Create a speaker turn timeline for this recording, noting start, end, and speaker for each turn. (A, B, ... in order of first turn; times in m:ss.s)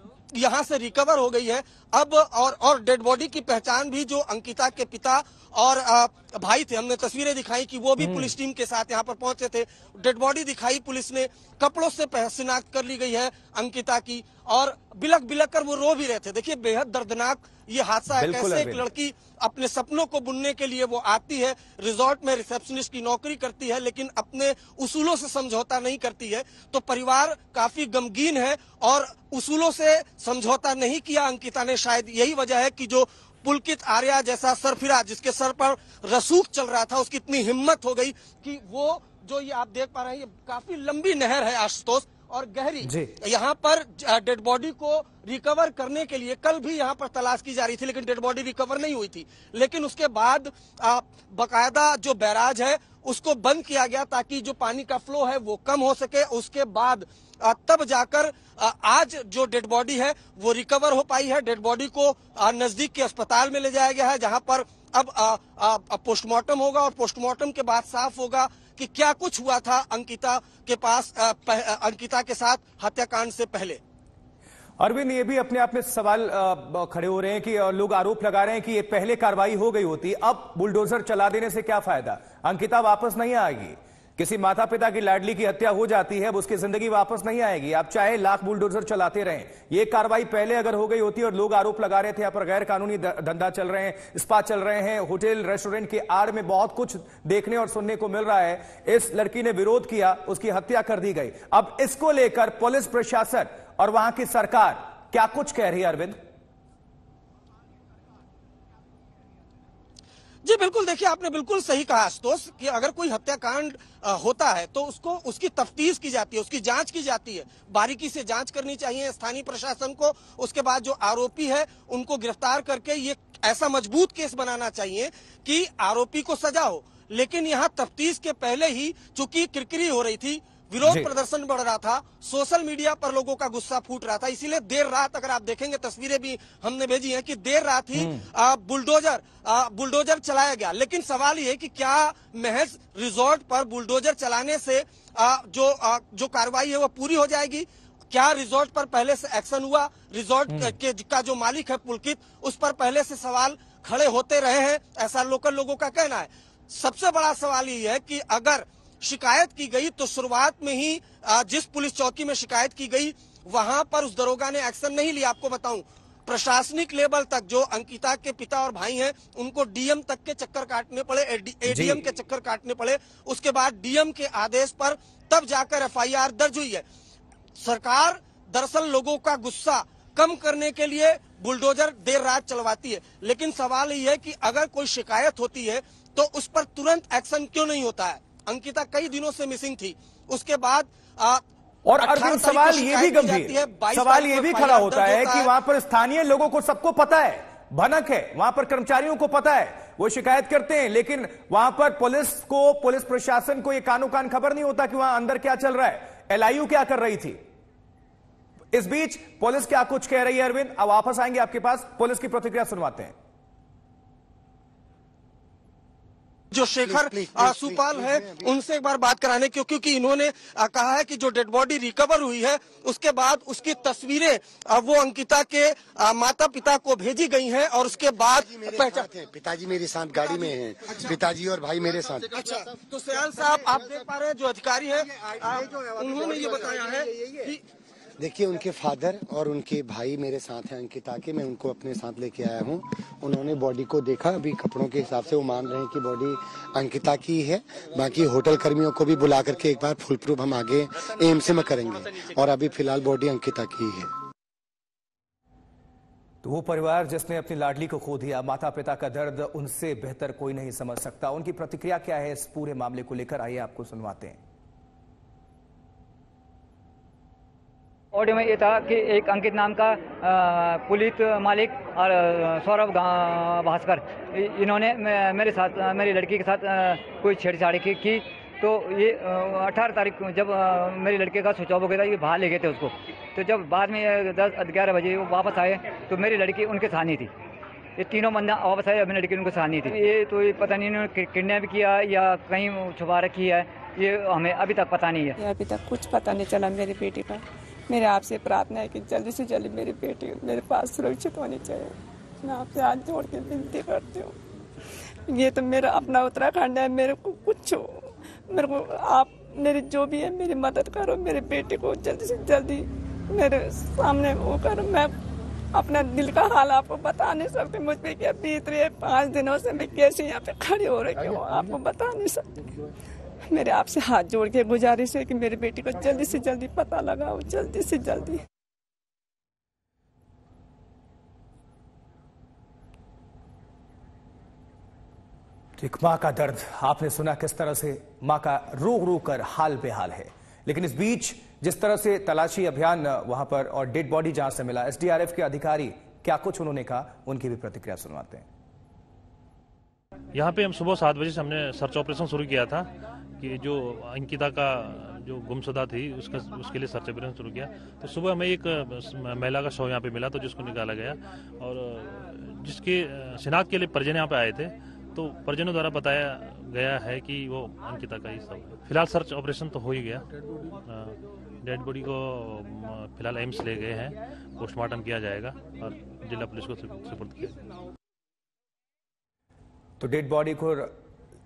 0:00.3-1:13.8 A
0:08.0-0:08.3 B
0:18.2-0:18.9 B
0:42.8-0:43.2 B
1:14.8-1:46.2 B
1:50.4-2:56.8 A
2:10.8-2:11.1 B
2:18.0-2:18.2 B
2:30.5-2:30.8 B
2:51.7-2:52.0 B
2:57.6-3:11.4 A
3:11.9-3:27.4 B
3:12.0-3:15.5 A
3:28.7-3:33.1 B
3:36.5-3:49.1 A
3:36.8-3:38.5 C
3:48.3-3:52.5 C
3:52.3-3:57.6 A
3:55.5-3:56.3 C
3:58.2-4:14.1 C
4:16.4-4:24.4 B
4:28.1-4:47.3 D
4:48.0-4:55.4 D
4:55.4-5:04.4 E
5:05.3-5:15.1 E
5:15.8-5:22.7 E
5:23.5-5:28.4 E
5:35.8-5:48.5 B
5:50.3-5:52.9 F
5:53.4-6:10.3 F
6:10.8-6:17.6 F
6:20.0-6:20.9 B